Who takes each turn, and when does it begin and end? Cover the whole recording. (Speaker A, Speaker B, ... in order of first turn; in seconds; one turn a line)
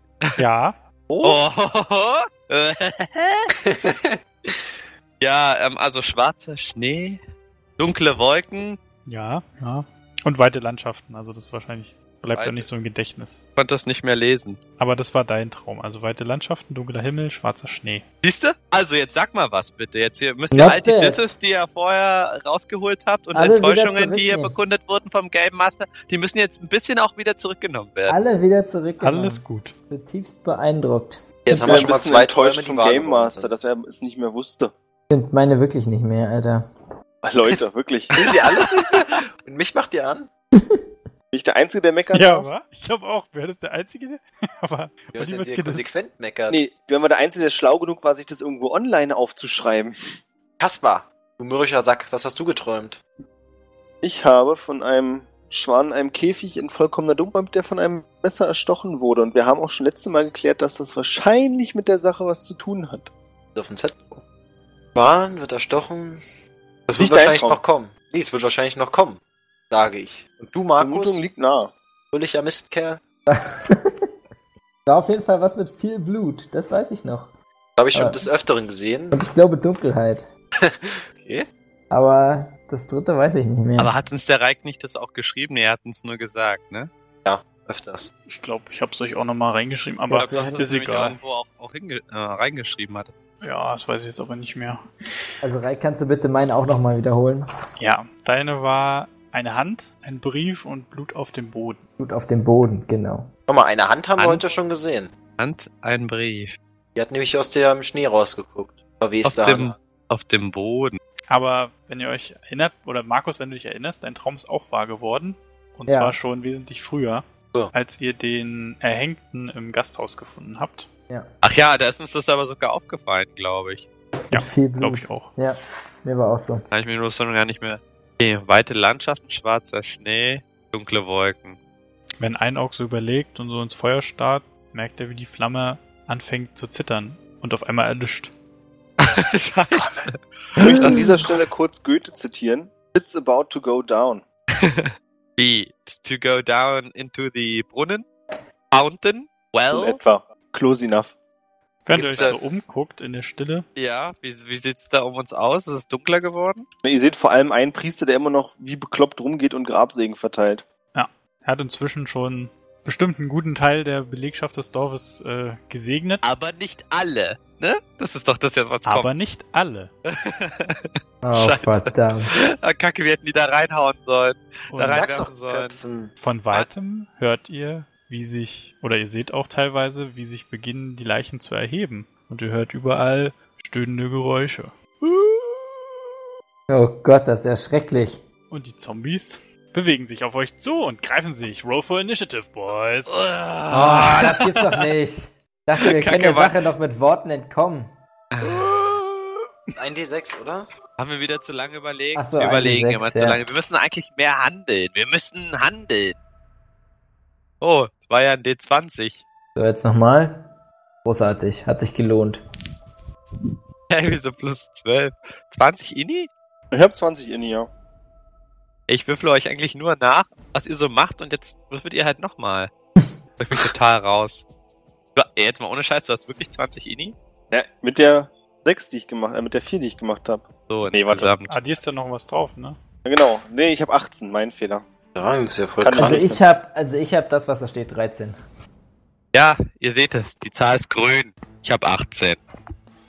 Speaker A: 0.4-0.8
Speaker B: 1.1-1.4
Speaker C: 1.2-3.5
Speaker B: 3.6-4.7
Speaker C: 5.2-7.2
Speaker C: 7.8-8.8
Speaker A: 9.1-13.4
Speaker C: 12.3-12.7
Speaker C: 13.6-14.6
Speaker A: 14.8-18.0
Speaker C: 18.2-28.2
Speaker D: 20.5-21.2
Speaker D: 23.3-24.6
Speaker D: 28.1-31.8
Speaker A: 29.0-29.7
Speaker B: 31.5-33.7
Speaker E: 31.5-34.7
Speaker D: 35.1-36.6
Speaker E: 37.2-38.1
Speaker B: 38.1-40.3
Speaker C: 38.2-39.0
Speaker D: 40.5-40.9
Speaker E: 41.3-42.5
Speaker A: 42.1-45.9
Speaker B: 45.1-46.6
Speaker E: 46.5-50.1
Speaker B: 50.6-53.0
Speaker E: 54.0-63.1
Speaker B: 63.5-64.2
Speaker B: 64.9-66.2
Speaker B: 66.9-71.2
Speaker E: 66.9-67.6
Speaker E: 70.8-71.7
Speaker B: 72.1-73.0
Speaker D: 73.3-74.0
Speaker D: 74.8-77.3
Speaker B: 77.8-79.2
Speaker D: 77.9-78.2
Speaker D: 79.1-80.3
Speaker B: 80.6-81.5
Speaker D: 81.9-83.9
Speaker C: 83.8-86.9
Speaker B: 87.2-88.1
Speaker A: 88.3-91.2
Speaker D: 90.1-90.7
Speaker C: 90.1-93.1
Speaker A: 93.4-94.9
Speaker D: 95.4-97.4
Speaker A: 97.8-101.8
Speaker D: 102.0-103.3
Speaker B: 103.5-105.1
Speaker C: 104.2-104.5
Speaker C: 105.4-106.6
Speaker B: 106.9-109.8
Speaker C: 109.2-111.0
Speaker A: 111.3-120.9
Speaker D: 115.9-116.2
Speaker C: 121.4-123.8
Speaker D: 124.3-126.6
Speaker A: 124.3-125.3
Speaker C: 126.7-131.6
Speaker A: 132.2-138.3
Speaker C: 139.0-141.1
Speaker E: 140.6-144.2
Speaker D: 140.6-141.2
Speaker C: 144.6-148.1
Speaker C: 148.7-150.0
Speaker E: 149.7-151.1
Speaker A: 151.8-153.7
Speaker C: 151.9-152.4
Speaker B: 151.9-152.4
Speaker C: 153.8-156.7
Speaker E: 156.8-160.6
Speaker A: 160.9-166.2
Speaker C: 166.2-169.1
Speaker A: 168.8-169.9
Speaker C: 170.1-175.8
Speaker D: 171.2-172.3
Speaker A: 174.7-175.2
Speaker B: 174.9-176.1
Speaker A: 176.2-185.9
Speaker D: 186.7-188.2
Speaker A: 188.5-193.2
Speaker C: 193.1-194.8
Speaker D: 193.7-197.9
Speaker C: 195.8-196.6
Speaker C: 198.3-198.9
Speaker B: 199.8-200.7
Speaker C: 201.0-206.2
Speaker D: 202.1-203.4
Speaker C: 207.6-209.2
Speaker D: 209.5-210.5
Speaker D: 211.0-212.4
Speaker C: 213.9-216.3
Speaker E: 216.7-217.7
Speaker C: 218.9-222.7
Speaker C: 223.4-224.4
Speaker C: 225.1-227.1
Speaker E: 227.5-231.3
Speaker C: 230.7-231.6
Speaker A: 231.5-232.8
Speaker E: 233.0-234.8
Speaker B: 235.1-236.3
Speaker E: 235.8-236.4
Speaker D: 236.0-238.4
Speaker C: 239.3-242.4